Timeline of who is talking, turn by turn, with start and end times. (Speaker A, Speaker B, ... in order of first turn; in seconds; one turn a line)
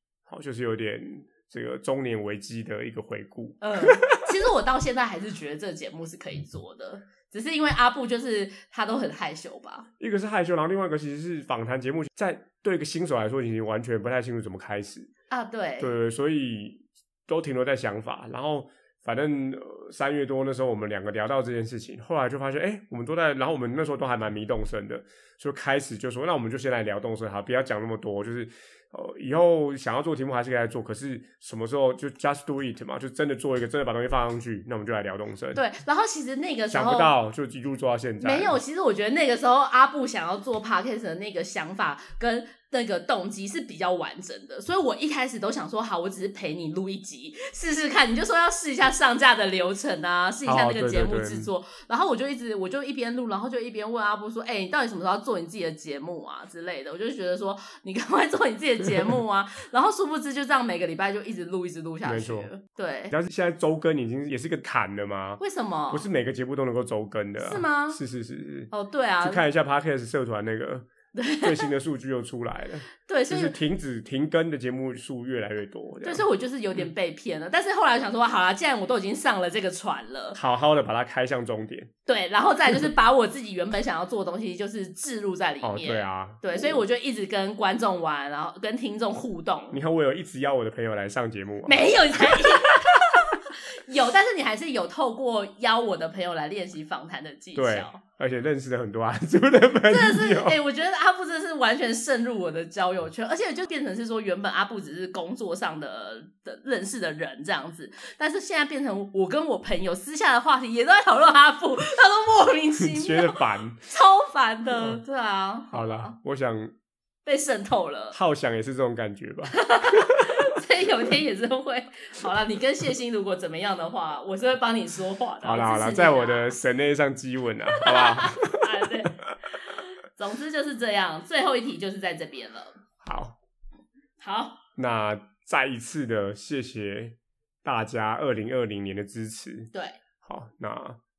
Speaker A: 0.3-4.0
Speaker B: 3.6-9.9
Speaker A: 10.0-15.1
Speaker B: 15.3-15.9
Speaker A: 15.8-35.6
Speaker B: 35.5-37.1
Speaker A: 36.7-38.5
Speaker B: 38.2-63.1
Speaker A: 50.5-51.5
Speaker A: 62.0-62.5
Speaker A: 63.1-65.4
Speaker B: 65.4-66.0
Speaker A: 65.9-68.7
Speaker B: 67.4-68.0
Speaker B: 68.7-69.4
Speaker A: 69.2-70.8
Speaker B: 71.1-71.7
Speaker A: 71.4-76.2
Speaker B: 73.0-73.6
Speaker B: 76.0-80.4
Speaker A: 80.3-81.9
Speaker B: 82.0-89.8
Speaker A: 85.6-86.5
Speaker A: 89.7-91.7
Speaker B: 91.7-98.0
Speaker A: 97.5-100.5
Speaker B: 99.9-116.2
Speaker A: 112.9-113.8
Speaker A: 115.7-116.7
Speaker B: 117.2-118.2
Speaker A: 118.1-120.3
Speaker B: 119.5-126.6
Speaker A: 125.4-128.7
Speaker B: 127.7-132.8
Speaker A: 133.0-133.3
Speaker B: 134.2-134.6
Speaker A: 134.8-139.7
Speaker B: 139.7-140.0
Speaker A: 140.2-141.0